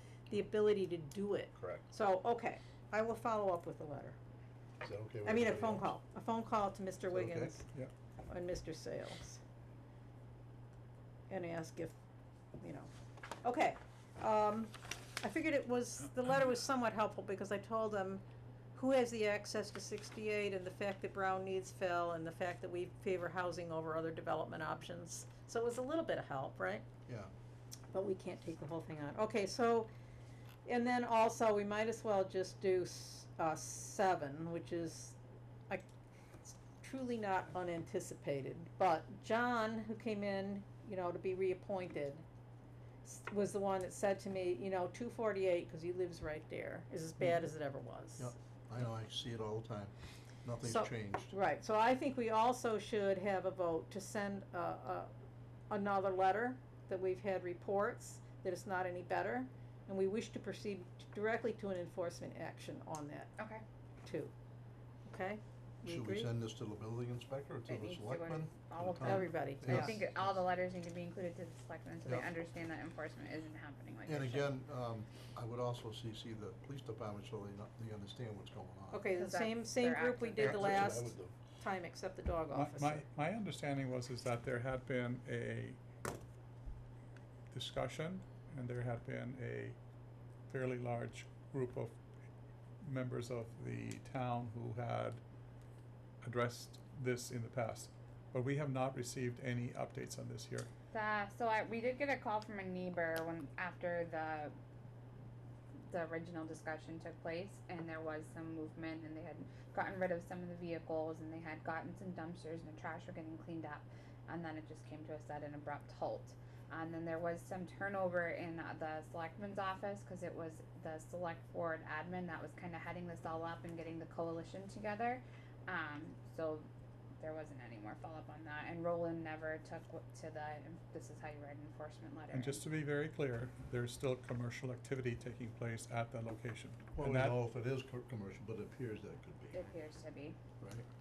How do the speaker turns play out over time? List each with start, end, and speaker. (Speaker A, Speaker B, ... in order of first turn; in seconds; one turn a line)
Speaker A: 0.3-4.2
Speaker B: 1.6-1.9
Speaker B: 4.8-5.9
Speaker A: 5.2-7.7
Speaker B: 7.1-7.6
Speaker A: 8.3-9.4
Speaker A: 11.3-12.0
Speaker A: 12.6-18.2
Speaker A: 18.7-26.8
Speaker A: 27.9-29.9
Speaker A: 30.6-35.2
Speaker A: 36.4-42.2
Speaker A: 43.0-48.3
Speaker B: 48.2-49.9
Speaker B: 50.4-51.3
Speaker A: 50.6-55.1
Speaker A: 55.7-63.3
Speaker C: 63.4-63.6
Speaker A: 64.0-64.3
Speaker A: 65.0-66.3
Speaker B: 65.8-70.4
Speaker C: 67.7-74.5
Speaker A: 69.0-70.0
Speaker B: 74.0-79.1
Speaker A: 78.9-83.0
Speaker C: 79.2-80.8
Speaker B: 80.4-81.3
Speaker D: 82.5-85.8
Speaker D: 87.5-89.8
Speaker D: 90.5-92.0
Speaker D: 92.8-95.2
Speaker D: 96.2-100.7
Speaker C: 100.9-104.5
Speaker C: 105.9-126.7
Speaker C: 127.2-132.6
Speaker D: 132.3-137.4
Speaker B: 136.9-139.6
Speaker C: 139.5-140.4
Speaker B: 140.6-140.8